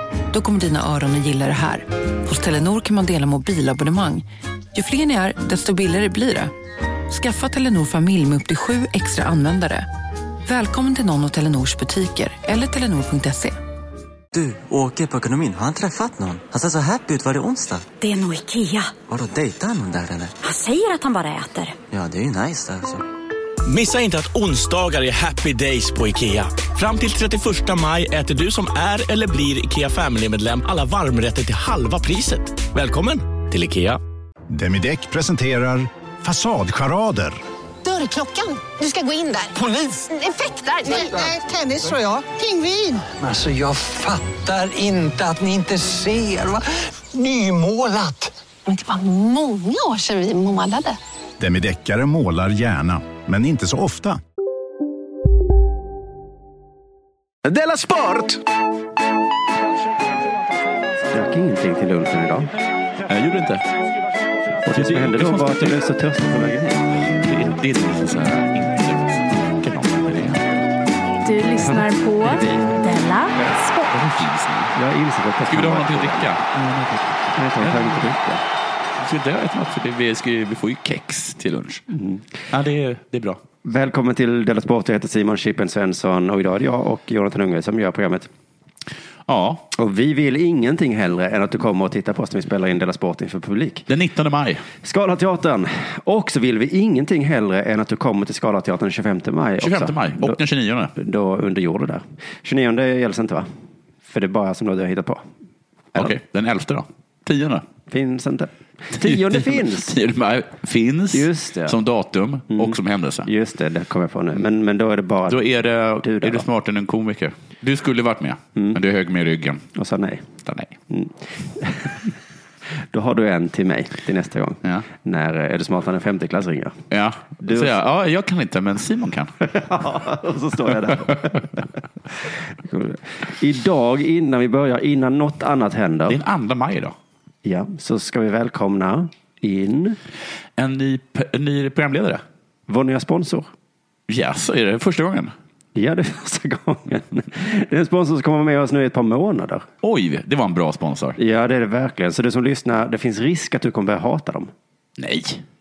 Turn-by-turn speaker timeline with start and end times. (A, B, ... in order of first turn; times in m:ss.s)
0:00.3-0:06.5 A
0:07.1-0:09.9 A
0:10.4-0:13.5 A
0:14.3-0:17.8 B
0:18.0-0:19.0 C
0:19.0-0:20.3 B
0:20.4-0:21.8 C
0:21.9-0:23.0 B
0:23.6-0:34.0 D
0:34.5-0:37.4 E
0:37.8-0:43.1 F
0:43.1-0:48.4 G
0:48.6-0:51.0 F
0:51.4-0:54.2 E
0:57.4-0:58.4 D
1:01.1-1:02.5 H
1:03.1-1:03.6 I
1:04.6-1:07.0 H
1:04.7-1:05.8 I
1:07.2-1:10.7 I
1:11.2-1:14.0 J
1:11.6-1:12.8 H
1:13.9-1:14.7 I
1:14.7-1:16.3 H
1:15.5-1:18.1 I
1:17.3-1:18.4 H
1:19.0-1:21.8 I
1:21.9-1:22.2 H
1:22.5-1:23.4 I
1:23.6-1:28.3 H
1:29.3-1:29.6 I
1:29.7-1:33.9 H
1:33.9-1:34.6 I
1:34.8-1:40.4 H
1:39.6-1:40.9 I
1:41.0-1:43.5 H
1:44.0-1:45.2 H
1:46.0-1:47.6 I
1:47.9-1:50.0 H
1:49.0-1:53.3 I
1:51.1-1:51.8 H
1:52.5-1:55.4 H
1:55.3-1:59.7 I
1:56.0-1:56.4 H
1:59.7-2:00.2 H
2:00.4-2:00.7 I
2:00.9-2:02.0 H
2:02.9-2:06.8 H
2:06.9-2:09.3 I
2:07.4-2:07.8 H
2:09.4-2:11.5 H
2:12.3-2:16.2 H
2:16.1-2:16.9 I
2:17.4-2:20.0 H
2:20.6-2:22.2 I
2:22.7-2:23.5 H
2:24.1-2:25.3 I
2:25.7-2:29.6 H
2:29.8-2:31.2 I
2:31.2-2:34.5 H
2:35.0-2:35.4 I